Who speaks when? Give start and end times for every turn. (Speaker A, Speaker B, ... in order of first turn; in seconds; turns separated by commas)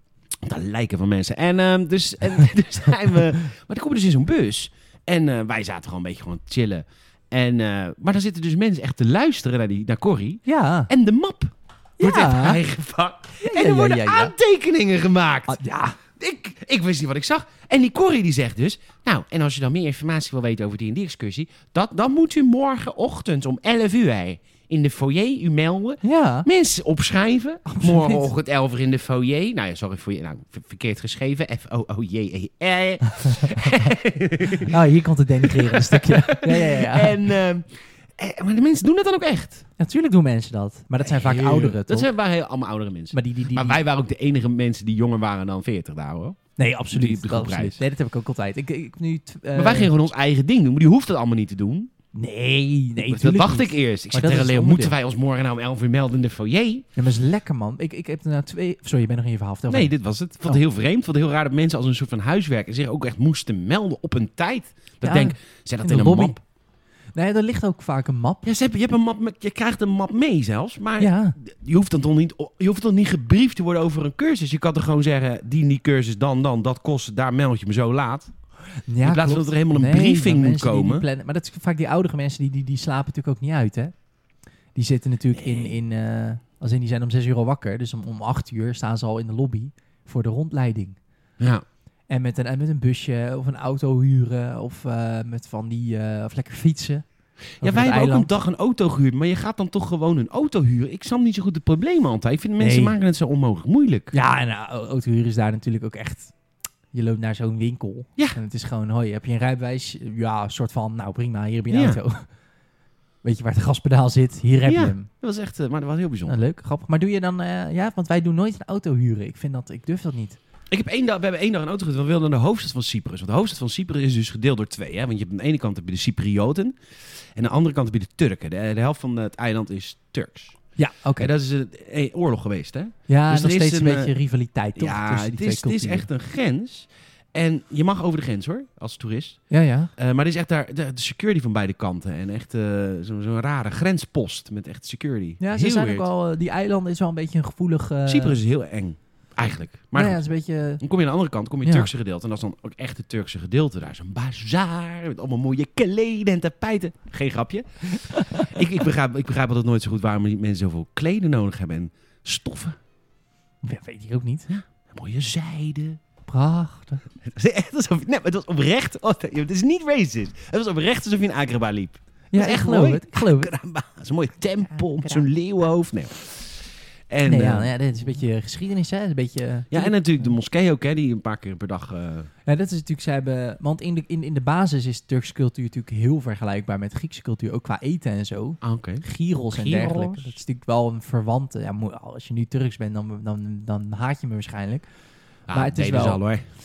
Speaker A: 0.4-15.6, Speaker B: 10.5-10.9, Speaker B: 12.0-12.6, Speaker B: 13.4-14.3, Speaker B: 15.5-16.0, Speaker A: 16.2-34.8, Speaker B: 26.0-26.5, Speaker B: 27.7-28.3, Speaker B: 33.0-33.8, Speaker B: 34.6-37.3, Speaker A: 35.4-39.6, Speaker B: 39.8-42.1, Speaker A: 41.0-46.4, Speaker B: 43.1-43.8, Speaker B: 46.6-49.9, Speaker A: 46.9-47.8, Speaker A: 49.5-51.9, Speaker B: 52.1-54.9, Speaker A: 53.0-56.9, Speaker B: 57.0-59.9, Speaker A: 59.7-66.4, Speaker B: 65.0-66.4, Speaker B: 67.2-68.4, Speaker A: 68.4-78.3, Speaker B: 71.0-71.4, Speaker B: 78.9-83.9, Speaker A: 79.0-81.0, Speaker B: 84.8-91.0, Speaker A: 85.4-85.7, Speaker A: 91.4-91.7, Speaker B: 92.1-97.0, Speaker B: 97.6-98.3, Speaker A: 97.6-104.1, Speaker B: 102.6-103.0, Speaker B: 104.1-106.3, Speaker B: 106.9-112.3, Speaker A: 111.7-112.0, Speaker B: 113.2-115.1, Speaker A: 114.7-116.4, Speaker B: 116.3-120.4, Speaker A: 120.7-126.8, Speaker A: 127.4-134.1, Speaker B: 130.8-131.3, Speaker B: 133.1-136.1, Speaker A: 134.8-139.4, Speaker B: 139.5-139.9, Speaker A: 140.0-146.1, Speaker B: 145.4-148.4, Speaker A: 148.1-150.2, Speaker B: 149.9-150.8, Speaker A: 150.8-162.8, Speaker B: 151.6-151.9, Speaker B: 157.9-158.6, Speaker B: 163.6-164.5, Speaker A: 164.5-166.0, Speaker B: 166.3-167.0, Speaker A: 167.2-177.7, Speaker B: 172.3-173.5, Speaker B: 174.7-175.3, Speaker B: 177.2-180.3, Speaker A: 179.7-182.3, Speaker B: 182.5-194.9, Speaker A: 188.6-190.4, Speaker A: 195.5-196.4, Speaker B: 195.5-196.2